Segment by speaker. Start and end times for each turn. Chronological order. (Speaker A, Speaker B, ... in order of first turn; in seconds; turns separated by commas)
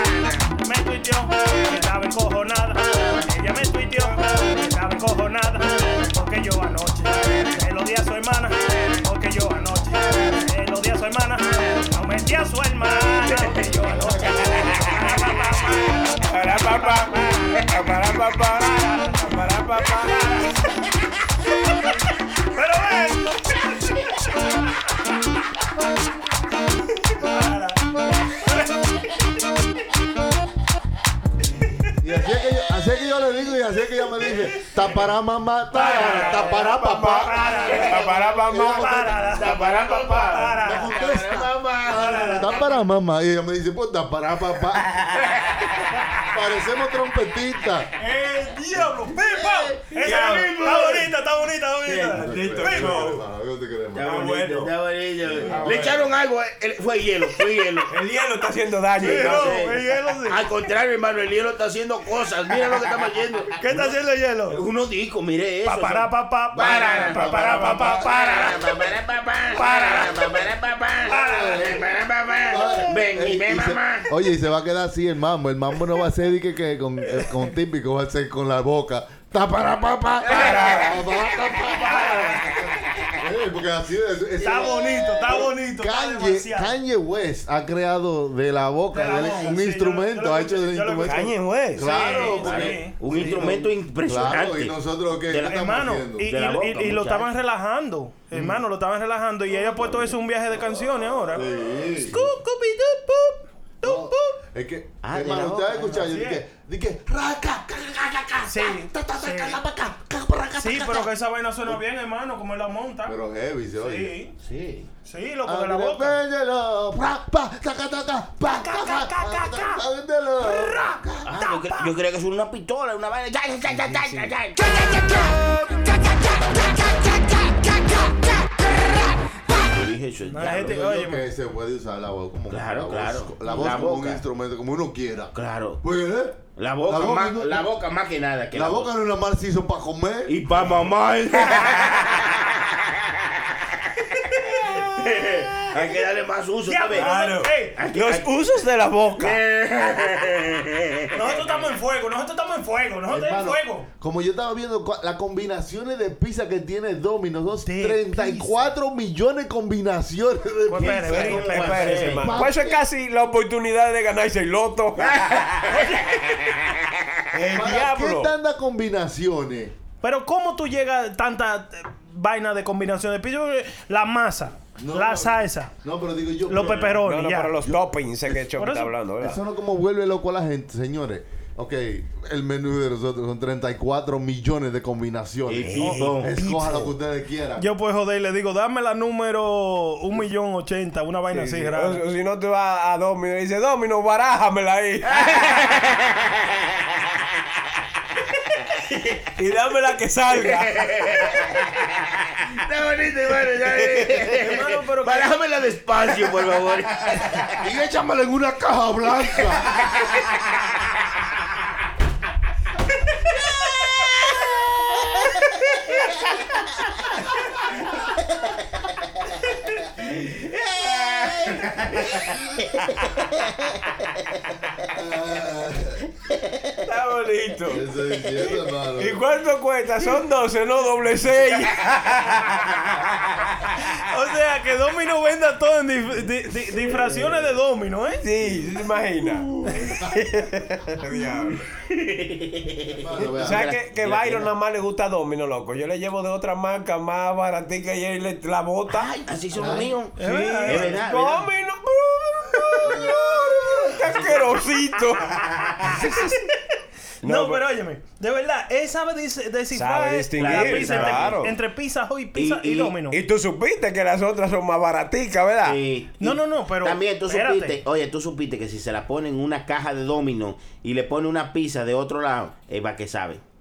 Speaker A: 0.6-17.4, Speaker B: 13.6-15.0, Speaker B: 16.2-20.4, Speaker A: 20.0-20.5, Speaker A: 22.5-23.6, Speaker A: 27.2-28.7, Speaker C: 32.0-37.5, Speaker A: 35.7-38.1, Speaker B: 35.8-39.1, Speaker C: 38.3-39.4, Speaker A: 38.6-41.0, Speaker D: 39.3-42.5, Speaker C: 40.4-45.0, Speaker A: 41.9-42.7, Speaker C: 46.3-47.9, Speaker A: 48.0-53.1, Speaker D: 49.4-51.1, Speaker B: 50.0-50.5, Speaker D: 51.9-52.2, Speaker C: 52.1-54.4, Speaker B: 52.1-53.2, Speaker D: 53.9-57.9, Speaker B: 54.0-54.7, Speaker B: 55.4-56.0, Speaker C: 55.4-56.0, Speaker B: 57.9-59.6, Speaker A: 59.0-60.5, Speaker D: 59.0-63.9, Speaker A: 63.6-64.6, Speaker D: 64.5-74.1, Speaker A: 65.6-68.8, Speaker C: 66.6-67.9, Speaker B: 66.7-68.0, Speaker A: 69.5-70.4, Speaker A: 71.1-71.8, Speaker C: 71.2-71.7, Speaker C: 72.5-96.3, Speaker B: 80.3-80.9, Speaker A: 81.6-82.5, Speaker A: 84.4-86.7, Speaker A: 88.9-93.5, Speaker B: 91.0-91.9, Speaker D: 92.3-94.8, Speaker D: 95.3-97.3, Speaker A: 95.4-101.5, Speaker C: 101.3-102.2, Speaker A: 102.1-104.4, Speaker C: 103.8-111.0, Speaker D: 105.0-106.0, Speaker A: 105.9-106.4, Speaker A: 108.5-109.6, Speaker A: 110.6-113.2, Speaker C: 113.0-114.1, Speaker A: 113.8-114.3, Speaker D: 114.4-114.9, Speaker A: 115.0-116.2, Speaker C: 115.5-121.3, Speaker A: 118.6-119.8, Speaker D: 121.2-125.2, Speaker A: 121.4-121.9, Speaker D: 129.5-130.8, Speaker A: 130.3-131.3, Speaker C: 130.4-137.7, Speaker D: 132.5-134.2, Speaker D: 135.3-135.8, Speaker D: 136.6-138.9, Speaker C: 138.5-140.8, Speaker D: 140.3-142.5, Speaker D: 144.8-147.1, Speaker A: 146.7-147.8, Speaker B: 146.9-149.4, Speaker D: 147.7-148.3, Speaker D: 149.2-151.2, Speaker A: 151.1-153.9, Speaker C: 153.1-162.8, Speaker A: 157.6-158.7, Speaker A: 160.7-162.2, Speaker D: 160.9-162.5, Speaker B: 161.1-165.7, Speaker A: 165.7-166.2, Speaker B: 167.3-168.3, Speaker C: 167.5-169.7, Speaker A: 170.0-175.7, Speaker C: 174.8-177.0, Speaker A: 176.5-177.6, Speaker B: 176.7-179.4, Speaker A: 178.6-178.9, Speaker C: 179.2-187.7, Speaker D: 185.5-186.8, Speaker B: 185.7-186.6, Speaker A: 185.8-186.1, Speaker A: 187.6-192.0, Speaker B: 191.3-195.5, Speaker D: 195.2-196.3, Speaker B: 199.3-200.9, Speaker D: 200.7-207.5, Speaker A: 204.3-205.3, Speaker C: 207.5-209.8, Speaker C: 224.9-226.1, Speaker B: 226.8-227.9, Speaker C: 227.7-229.2, Speaker B: 228.9-232.8, Speaker A: 233.9-238.2, Speaker B: 236.9-237.5, Speaker B: 238.2-241.6, Speaker D: 241.9-244.5, Speaker C: 242.9-243.7, Speaker B: 243.4-249.1, Speaker D: 248.9-251.5, Speaker C: 249.5-250.0, Speaker B: 250.2-256.5, Speaker A: 250.2-250.9, Speaker D: 254.0-254.5, Speaker B: 257.2-257.6, Speaker A: 257.2-263.2, Speaker B: 259.7-261.5, Speaker D: 260.4-261.4, Speaker D: 262.3-262.9, Speaker B: 263.1-265.8, Speaker D: 265.6-273.4, Speaker A: 266.2-267.8